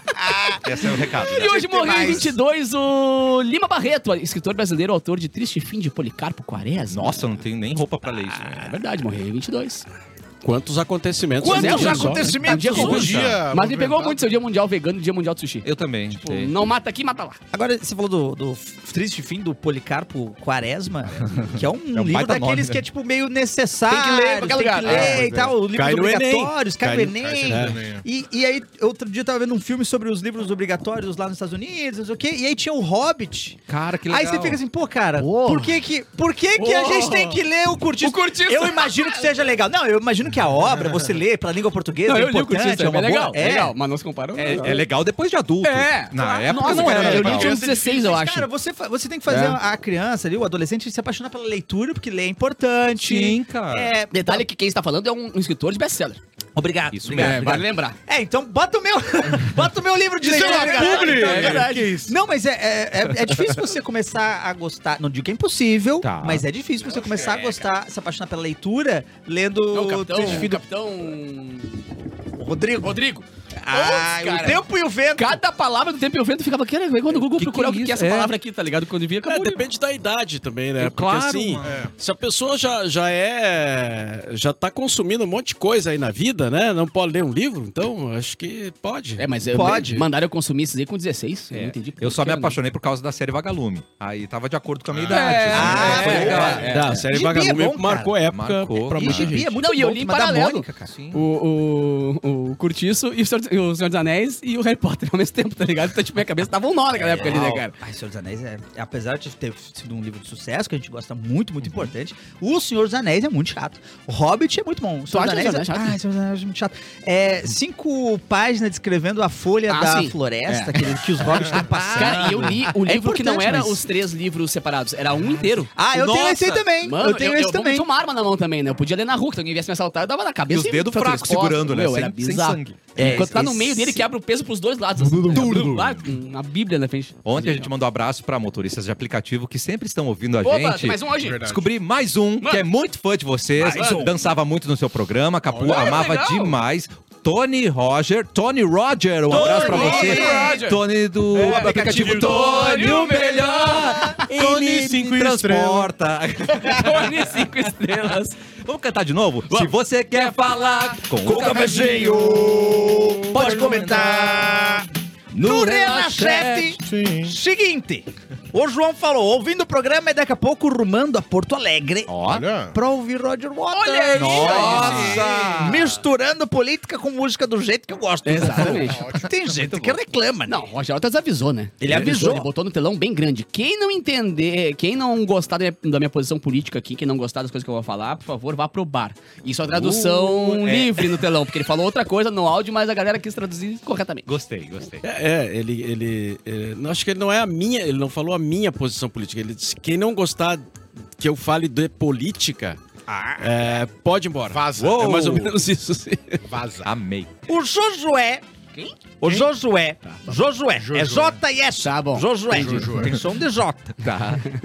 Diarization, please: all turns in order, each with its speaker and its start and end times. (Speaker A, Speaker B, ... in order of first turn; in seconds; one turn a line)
Speaker A: 0.1-2.4
Speaker B: 0.6-2.1
Speaker C: 1.2-7.3
Speaker B: 6.9-8.7
Speaker C: 8.3-9.9
Speaker D: 10.4-12.5
Speaker A: 11.4-13.2
Speaker C: 11.5-17.4
Speaker E: 12.5-14.3
Speaker B: 12.7-13.4
Speaker B: 15.6-16.5
Speaker A: 17.5-43.8
Speaker B: 21.4-22.8
Speaker C: 23.9-25.3
Speaker B: 24.9-25.4
Speaker D: 24.9-27.8
Speaker E: 27.2-28.1
Speaker B: 33.7-34.6
Speaker C: 35.2-35.8
Speaker C: 36.6-37.4
Speaker C: 38.0-39.3
Speaker C: 42.1-44.8
Speaker B: 44.4-47.6
Speaker C: 45.6-48.5
Speaker A: 46.2-54.5
Speaker E: 46.5-48.2
Speaker C: 49.3-49.6
Speaker B: 53.0-53.9
Speaker C: 54.1-56.2
Speaker A: 56.5-70.6
Speaker B: 56.9-57.7
Speaker C: 57.1-58.0
Speaker E: 60.2-62.1
Speaker C: 60.3-62.0
Speaker B: 66.0-66.5
Speaker C: 69.7-71.9
Speaker A: 72.4-73.0
Speaker C: 72.8-79.7
Speaker A: 73.6-75.4
Speaker B: 77.1-78.3
Speaker D: 79.3-89.3
Speaker B: 80.8-81.9
Speaker E: 81.6-81.9
Speaker C: 89.2-92.6
Speaker A: 89.5-90.1
Speaker B: 91.5-96.7
Speaker E: 94.9-95.3
Speaker C: 95.1-97.1
Speaker A: 95.5-98.2
Speaker D: 95.7-96.1
Speaker D: 96.6-99.6
Speaker B: 98.3-99.4
Speaker A: 98.9-100.9
Speaker C: 99.6-107.8
Speaker B: 100.9-101.2
Speaker A: 107.2-123.8
Speaker B: 107.2-107.6
Speaker B: 111.6-111.9
Speaker C: 115.1-116.0
Speaker C: 119.7-121.0
Speaker B: 121.6-122.6
Speaker C: 121.9-125.8
Speaker A: 125.8-127.9
Speaker B: 125.9-126.6
Speaker C: 126.8-137.7
Speaker B: 130.5-133.7
Speaker A: 132.9-134.0
Speaker A: 135.1-135.9
Speaker B: 135.2-136.1
Speaker B: 137.2-157.5
Speaker C: 140.4-141.5
Speaker E: 141.2-141.7
Speaker C: 142.4-142.7
Speaker A: 143.6-144.3
Speaker C: 143.7-144.1
Speaker E: 145.5-146.1
Speaker C: 145.6-146.6
Speaker A: 149.3-150.6
Speaker C: 149.3-154.2
Speaker A: 151.4-152.3
Speaker E: 151.6-152.1
Speaker A: 153.8-154.2
Speaker E: 154.2-155.9
Speaker C: 156.5-158.4
Speaker B: 158.6-164.5
Speaker C: 159.5-160.3
Speaker A: 161.2-180.7
Speaker B: 165.4-166.8
Speaker E: 166.8-167.4
Speaker B: 172.1-172.4
Speaker E: 172.2-172.8
Speaker C: 173.7-175.4
Speaker B: 174.2-176.0
Speaker C: 178.2-179.0
Speaker E: 178.6-179.3
Speaker B: 179.5-180.0
Speaker C: 180.5-194.3
Speaker A: 181.8-182.5
Speaker B: 189.7-191.2
Speaker B: 194.3-195.0
Speaker D: 195.0-200.6
Speaker D: 201.2-202.8
Speaker A: 203.1-203.7
Speaker D: 203.4-206.4
Speaker E: 204.5-205.1
Speaker B: 204.8-205.6
Speaker E: 206.5-206.9
Speaker B: 206.8-207.3
Speaker A: 207.5-208.4
Speaker A: 209.2-214.0
Speaker E: 209.2-209.5
Speaker E: 210.8-211.4
Speaker C: 211.8-212.9
Speaker E: 212.5-213.2
Speaker B: 214.0-214.4